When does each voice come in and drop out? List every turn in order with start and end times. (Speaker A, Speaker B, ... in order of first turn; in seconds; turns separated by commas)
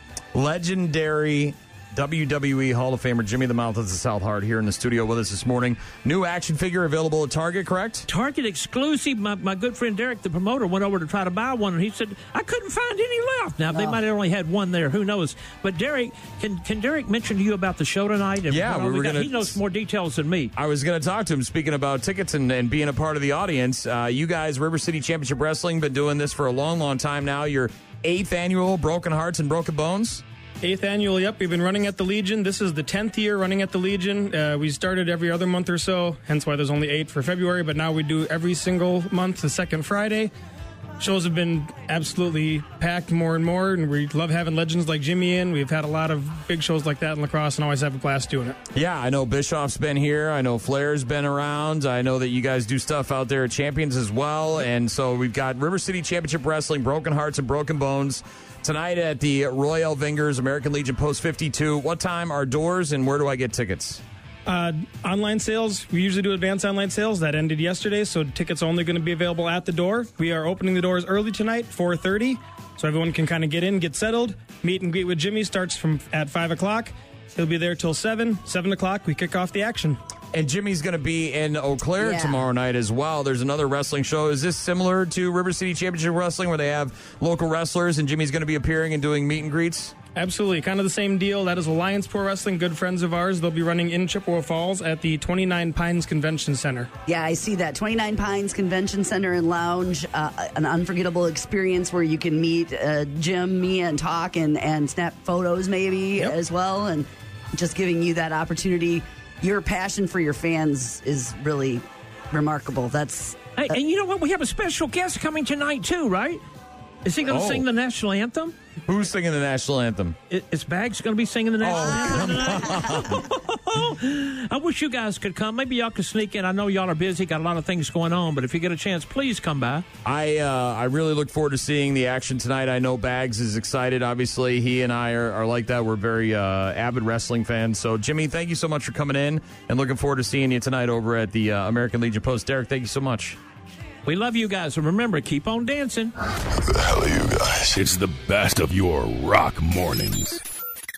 Speaker A: 0.3-8.1, Speaker B: 8.1-20.5, Speaker A: 18.5-19.5, Speaker A: 20.6-30.2, Speaker C: 30.6-40.3, Speaker C: 41.0-48.6, Speaker A: 48.7-64.0, Speaker C: 64.5-80.0, Speaker A: 80.3-89.9, Speaker D: 82.0-82.4, Speaker C: 90.2-96.9, Speaker D: 97.1-113.8, Speaker B: 113.6-116.4, Speaker B: 117.0-118.5, Speaker A: 117.3-117.7, Speaker A: 118.9-120.2, Speaker B: 120.3-129.9, Speaker A: 121.6-123.2, Speaker D: 121.8-122.4, Speaker A: 130.1-143.4, Speaker B: 144.1-146.1, Speaker E: 146.7-150.4